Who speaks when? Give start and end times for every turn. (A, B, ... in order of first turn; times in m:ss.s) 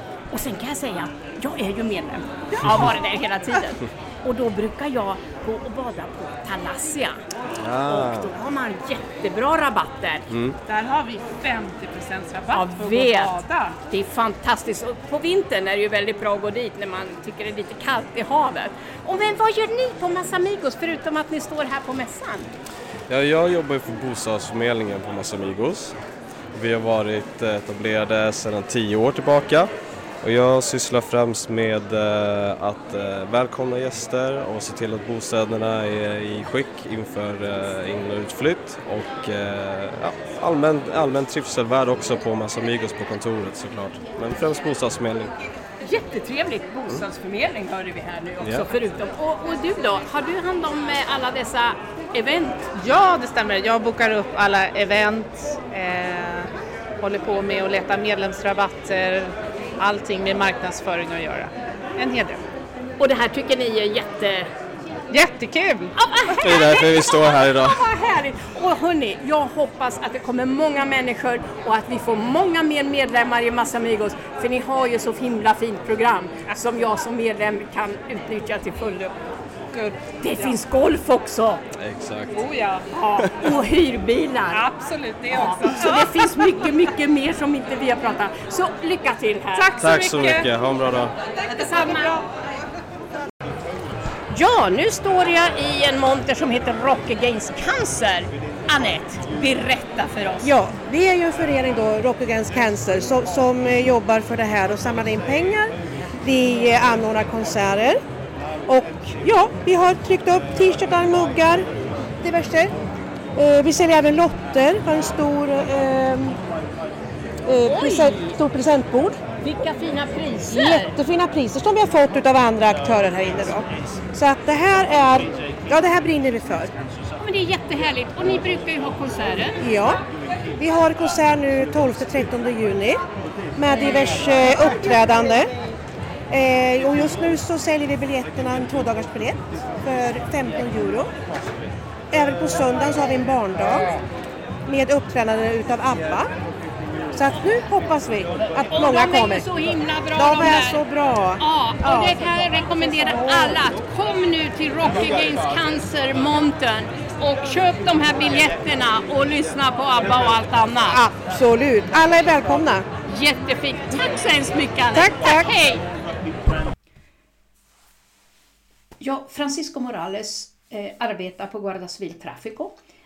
0:00.3-0:07.2 A
0:07.6-0:08.3 B
0:07.9-0:10.3 A
0:10.3-0:10.6 B
0:10.7-0:13.8 C
0:12.5-0:13.4 A
0:13.9-0:22.6 A
0:23.1-0:26.0 B
0:26.5-0:45.3 B
0:45.8-0:52.7 A
0:48.4-0:48.7 B
0:52.7-1:02.4 C
1:03.0-1:04.5 A
1:05.1-1:05.9 C
1:06.0-1:19.2 A
1:06.4-1:07.8 B
1:19.7-1:20.6 C
1:20.2-1:21.6 A
1:21.8-1:22.4 B
1:22.3-1:23.2 C
1:23.2-1:24.7 A
1:24.5-1:26.2 C
1:25.3-1:29.7 A
1:29.5-1:30.5 C
1:29.8-1:31.2 B
1:31.5-1:32.2 A
1:34.3-1:40.5 A
1:40.4-1:48.0 D
1:48.7-1:51.7 D
1:52.2-1:52.7 D
1:53.4-1:56.4 D
1:57.5-1:59.2 D
1:57.6-1:58.4 A
1:59.4-2:01.0 A
2:00.5-2:06.7 D
2:07.2-2:09.6 A
2:09.6-2:10.0 D
2:10.6-2:13.0 D
2:13.6-2:15.5 D
2:16.3-2:21.1 D
2:22.1-2:23.9 D
2:24.7-2:26.3 D
2:27.1-2:29.4 D
2:27.3-2:27.6 A
2:28.7-2:30.8 A
2:30.2-2:32.2 D
2:31.4-2:41.0 A
2:33.1-2:33.6 D
2:40.9-2:42.9 D
2:43.1-2:45.8 A
2:44.9-2:45.5 D
2:49.0-2:52.7 E